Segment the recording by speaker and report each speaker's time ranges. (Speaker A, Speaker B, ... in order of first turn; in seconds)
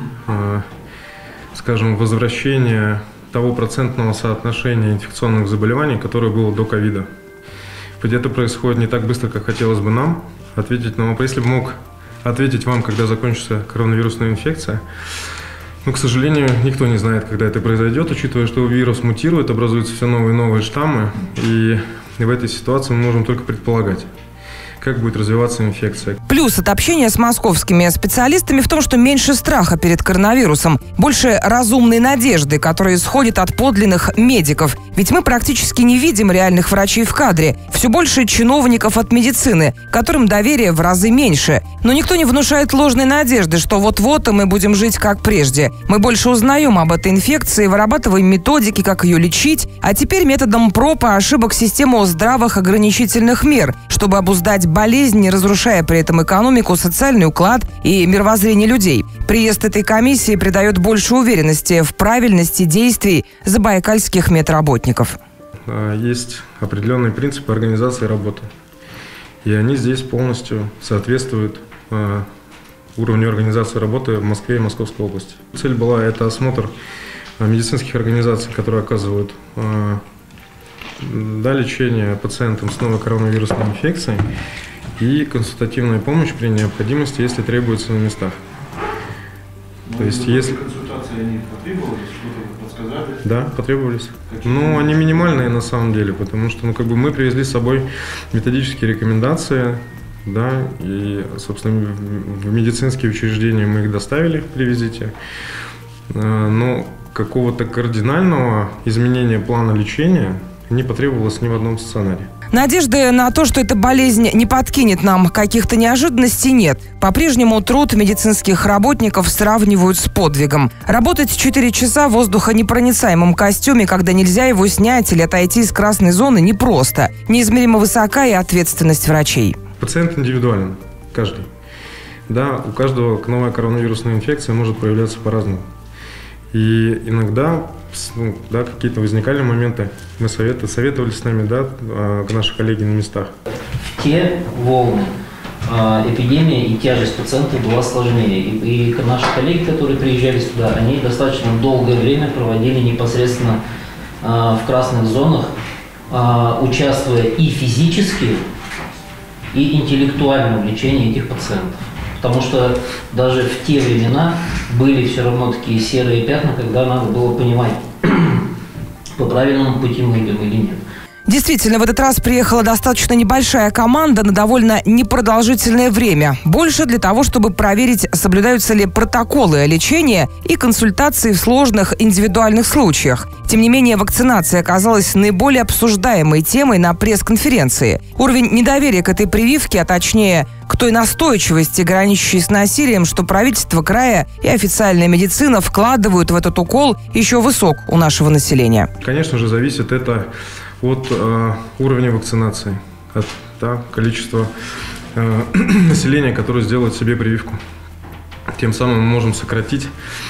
Speaker A: 0.2-0.6, 1.5-7.1, 8.0-14.8, 15.8-24.1, 24.8-26.2, 65.7-68.5, 69.4-72.3, 73.0-76.7, 77.4-80.0, 81.0-84.2, 85.0-88.4, 90.0-90.7, 93.2-105.1, 106.1-112.3, 129.8-131.5, 132.3-135.7, 136.5-143.3, 199.0-200.3, 200.8-204.5, 205.2-207.6, 208.6-209.9
Speaker B: 26.3-65.2, 112.5-129.6, 171.3-198.9
Speaker C: 89.9-93.2, 94.3-95.1
Speaker D: 143.8-145.1, 145.7-153.6, 154.2-155.5, 156.1-158.4, 159.5-168.5, 169.2-170.8